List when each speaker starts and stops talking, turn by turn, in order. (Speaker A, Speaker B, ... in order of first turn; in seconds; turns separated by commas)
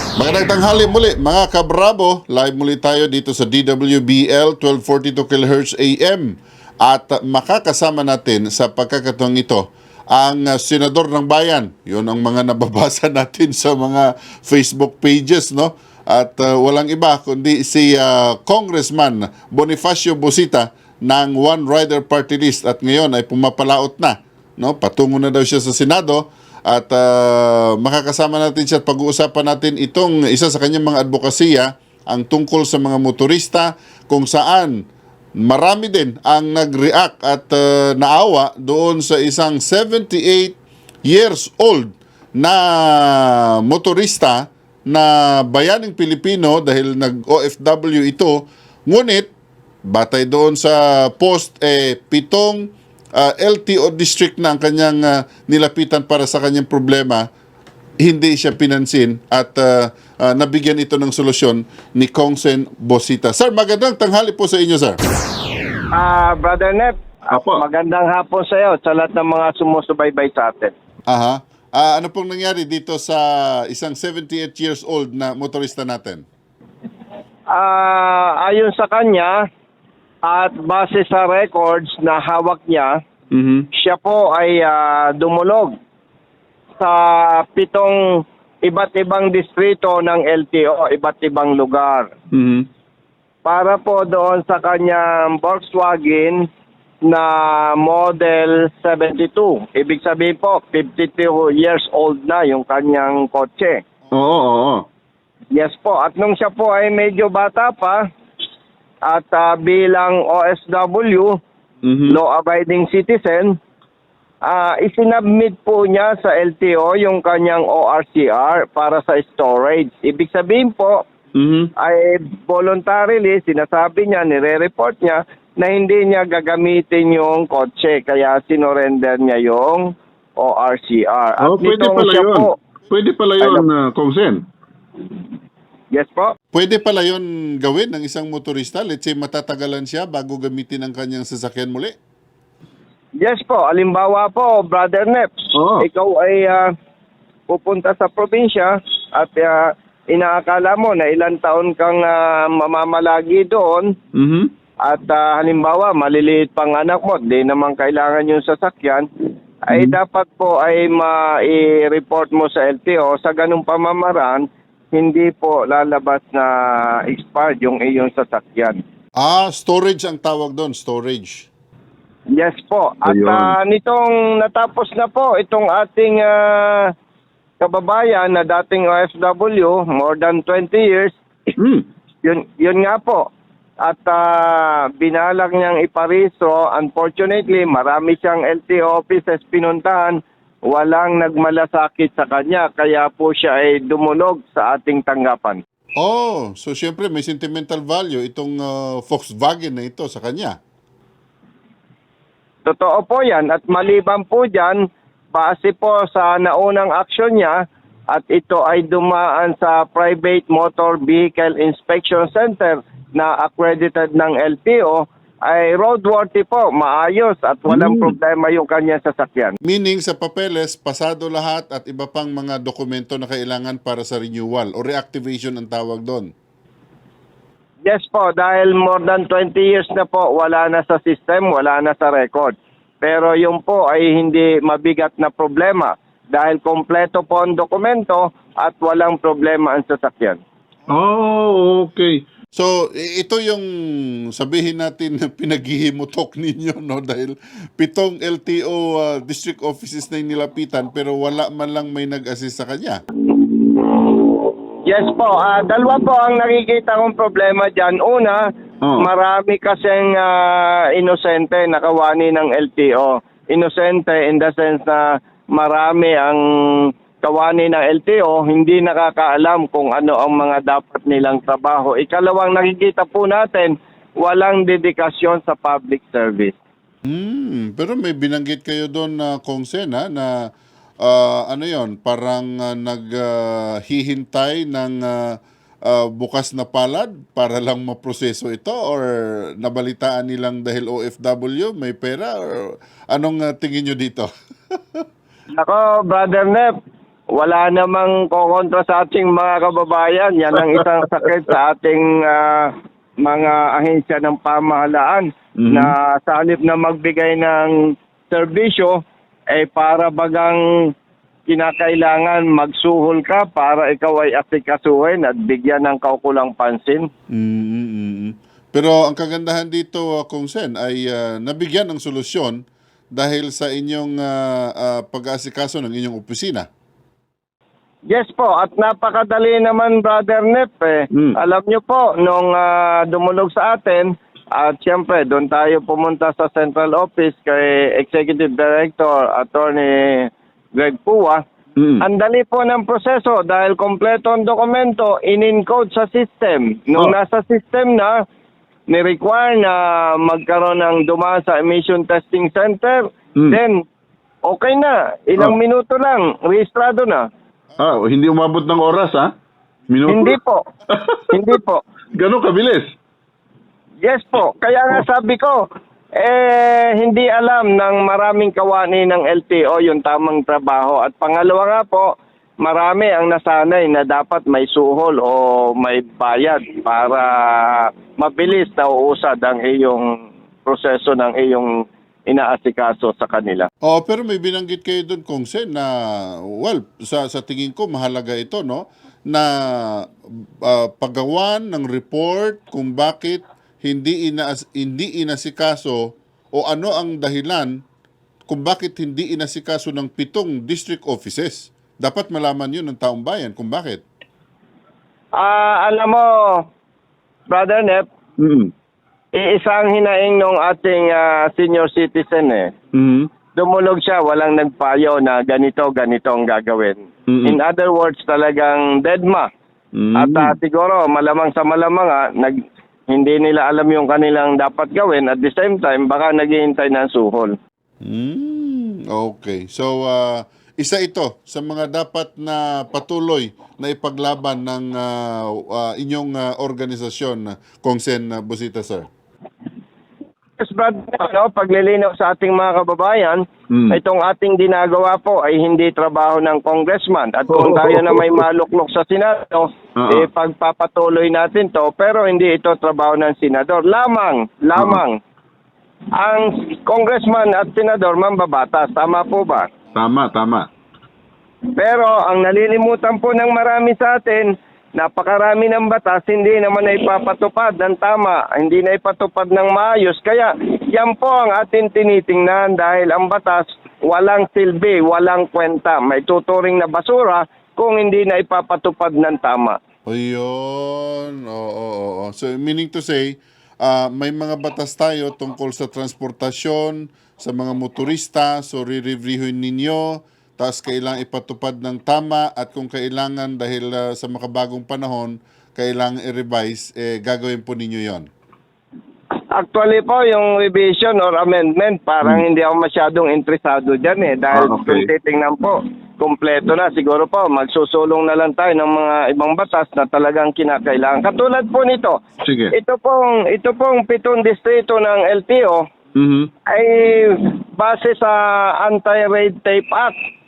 Speaker A: 0.2-34.8, Speaker A: 35.4-49.3, Speaker A: 49.9-57.2, Speaker A: 58.0-65.0, Speaker B: 65.9-70.7, Speaker C: 67.3-67.6, Speaker A: 71.1-76.3, Speaker B: 77.5-79.4, Speaker B: 80.2-83.0, Speaker C: 83.3-83.7, Speaker B: 83.8-85.7, Speaker B: 86.8-88.0, Speaker B: 88.6-92.1, Speaker C: 92.3-92.7, Speaker B: 93.4-96.5, Speaker B: 97.0-103.8, Speaker C: 104.1-104.8, Speaker B: 105.5-108.0, Speaker B: 109.1-111.4, Speaker C: 111.8-112.2, Speaker B: 112.1-113.5, Speaker B: 114.4-121.0, Speaker C: 121.4-121.7, Speaker B: 121.8-132.6, Speaker C: 131.4-134.4, Speaker B: 133.4-133.7, Speaker B: 135.9-136.3, Speaker A: 136.5-141.9, Speaker B: 143.2-146.7, Speaker C: 145.6-145.9, Speaker B: 147.5-153.9, Speaker C: 154.2-154.5, Speaker B: 154.9-159.1, Speaker B: 159.7-168.8, Speaker A: 169.2-171.5, Speaker B: 172.4-176.9, Speaker C: 173.1-173.6, Speaker B: 177.6-181.2, Speaker C: 181.6-181.8, Speaker B: 182.2-183.3, Speaker B: 183.8-195.6, Speaker A: 196.0-200.6, Speaker B: 202.6-207.6, Speaker B: 208.1-219.6, Speaker A: 219.7-226.3, Speaker B: 227.8-240.4, Speaker C: 240.9-242.2, Speaker A: 242.5-243.7, Speaker A: 244.3-253.0, Speaker B: 254.9-258.4, Speaker C: 258.8-259.1, Speaker B: 259.0-276.6, Speaker A: 277.1-280.5, Speaker A: 281.0-289.1, Speaker A: 289.6-295.0, Speaker B: 295.6-296.7, Speaker B: 297.4-302.7, Speaker B: 303.2-307.8, Speaker C: 305.6-305.9, Speaker B: 308.3-309.0, Speaker B: 309.5-310.6, Speaker B: 311.5-317.1, Speaker A: 317.3-322.6, Speaker A: 323.1-326.7, Speaker B: 328.1-341.4, Speaker C: 341.8-342.0, Speaker B: 342.0-348.1, Speaker B: 348.9-353.8, Speaker B: 354.5-357.2, Speaker C: 357.8-359.3, Speaker C: 359.9-360.4, Speaker B: 360.1-360.6, Speaker C: 360.9-361.4, Speaker B: 361.3-361.8, Speaker C: 362.1-362.9, Speaker B: 364.0-365.6, Speaker B: 366.2-372.1, Speaker B: 372.6-383.7, Speaker A: 383.9-390.1, Speaker A: 390.6-397.8, Speaker A: 398.5-404.0, Speaker B: 405.4-406.6, Speaker B: 407.5-408.1, Speaker C: 408.4-408.7, Speaker B: 409.3-412.7, Speaker C: 412.9-413.3, Speaker B: 413.5-419.5, Speaker C: 417.3-417.6, Speaker C: 420.0-420.6, Speaker B: 420.2-422.6, Speaker B: 423.1-427.5, Speaker A: 428.0-439.1, Speaker B: 440.6-455.2, Speaker C: 443.7-444.0, Speaker C: 447.5-448.4, Speaker C: 450.0-450.3, Speaker B: 456.2-459.7, Speaker C: 459.9-460.7, Speaker B: 461.8-479.8, Speaker A: 480.1-498.3, Speaker B: 499.5-515.9, Speaker C: 504.5-505.1, Speaker C: 512.4-512.7, Speaker C: 516.2-516.5, Speaker B: 516.7-520.1